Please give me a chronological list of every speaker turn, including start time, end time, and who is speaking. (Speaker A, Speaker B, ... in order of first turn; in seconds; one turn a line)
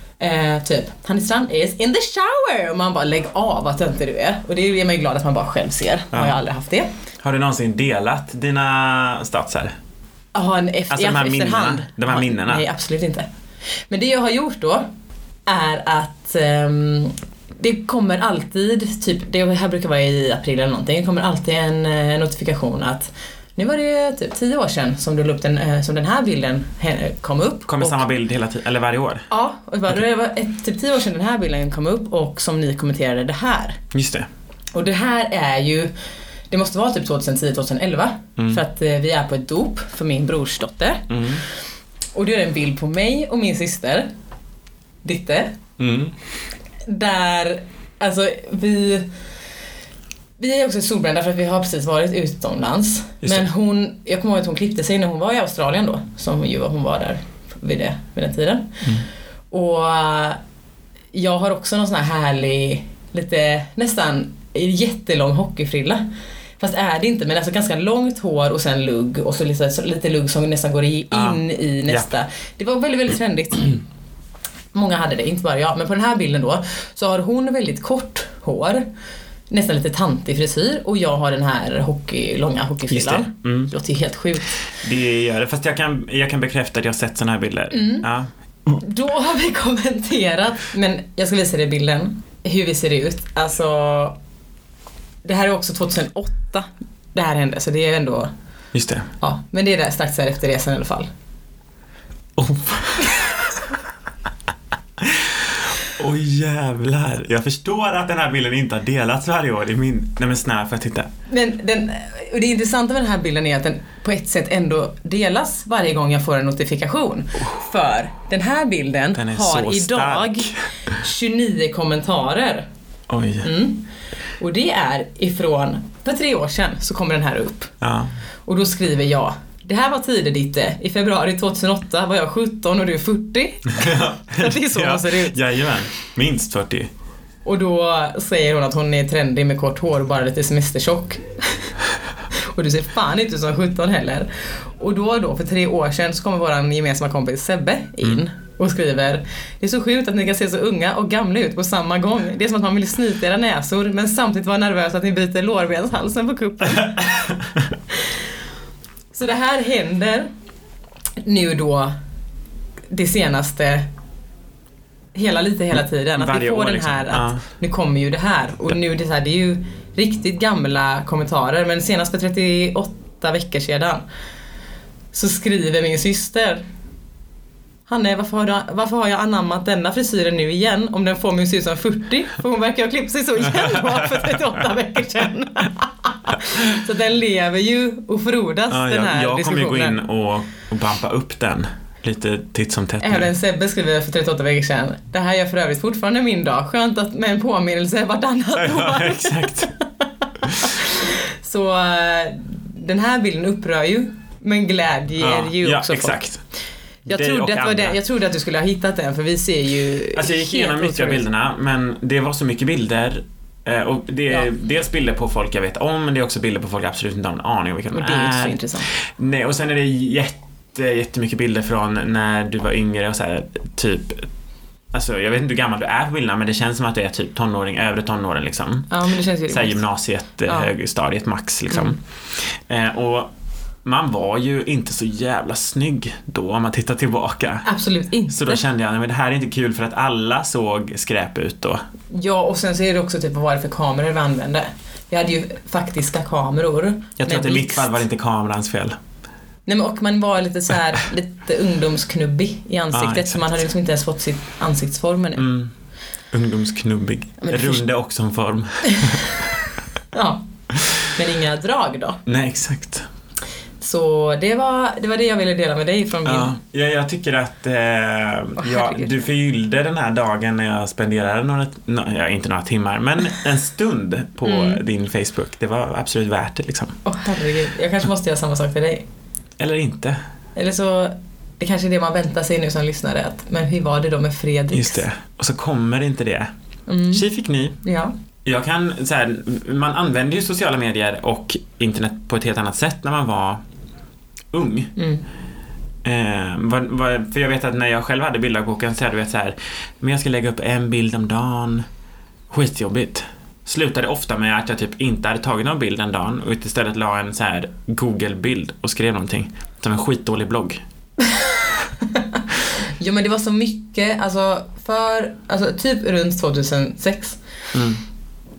Speaker A: 0.2-6.9
Speaker B: 7.2-9.7
Speaker A: 10.3-13.3
Speaker B: 10.9-12.7
Speaker A: 13.9-14.9
Speaker A: 15.5-28.0
Speaker B: 27.7-29.3
Speaker A: 29.3-33.8
Speaker B: 33.9-34.3
Speaker A: 34.7-35.9
Speaker A: 36.5-41.2
Speaker B: 41.1-41.4
Speaker A: 42.1-44.1
Speaker A: 45.0-45.6
Speaker B: 45.8-46.1
Speaker A: 46.9-49.1
Speaker A: 50.4-58.8
Speaker B: 53.2-53.5
Speaker A: 59.5-60.4
Speaker A: 61.1-66.1
Speaker A: 66.6-73.8
Speaker B: 71.1-72.1
Speaker A: 74.7-78.9
Speaker A: 79.5-84.6
Speaker B: 82.9-83.7
Speaker B: 84.7-88.3
Speaker A: 87.7-88.1
Speaker A: 88.7-94.2
Speaker A: 95.2-98.3
Speaker B: 98.7-99.1
Speaker A: 99.2-101.1
Speaker B: 102.4-103.4
Speaker B: 105.0-111.1
Speaker A: 111.3-122.7
Speaker B: 119.1-120.5
Speaker B: 123.1-123.5
Speaker A: 123.4-123.9
Speaker A: 124.4-127.7
Speaker B: 127.8-128.1
Speaker A: 128.5-135.4
Speaker B: 133.7-136.9
Speaker A: 137.4-141.7
Speaker A: 142.4-157.0
Speaker B: 156.8-157.7
Speaker A: 159.1-160.3
Speaker A: 161.2-161.9
Speaker A: 162.9-163.9
Speaker A: 165.1-174.0
Speaker B: 166.1-167.4
Speaker A: 175.1-176.6
Speaker A: 177.9-190.0
Speaker B: 183.6-184.1
Speaker B: 188.7-193.3
Speaker A: 193.0-206.3
Speaker B: 198.6-199.7
Speaker B: 205.2-206.4
Speaker B: 207.1-208.0
Speaker A: 207.1-211.2
Speaker B: 210.2-224.3
Speaker A: 217.9-218.9
Speaker B: 224.9-228.9
Speaker A: 228.9-229.8
Speaker B: 229.5-233.3
Speaker A: 230.5-230.7
Speaker B: 233.8-237.7
Speaker A: 237.7-238.6
Speaker B: 238.3-241.8
Speaker A: 242.1-248.0
Speaker B: 247.2-249.0
Speaker A: 249.7-255.4
Speaker B: 252.9-253.6
Speaker B: 255.4-255.7
Speaker B: 256.3-259.6
Speaker A: 257.4-257.8
Speaker A: 258.9-259.3
Speaker A: 260.1-260.4
Speaker A: 261.0-262.2
Speaker B: 262.3-263.1
Speaker A: 263.8-266.6
Speaker B: 266.2-277.0
Speaker A: 268.6-269.2
Speaker A: 274.4-274.8
Speaker A: 277.1-279.0
Speaker B: 279.6-280.2
Speaker A: 280.6-285.1
Speaker B: 284.7-286.5
Speaker A: 286.9-287.3
Speaker B: 287.1-287.8
Speaker A: 287.8-288.1
Speaker B: 288.4-293.6
Speaker B: 294.5-294.9
Speaker A: 295.0-295.2
Speaker B: 296.0-301.9
Speaker B: 302.5-310.8
Speaker A: 312.0-312.4
Speaker A: 313.0-317.4
Speaker B: 317.7-318.0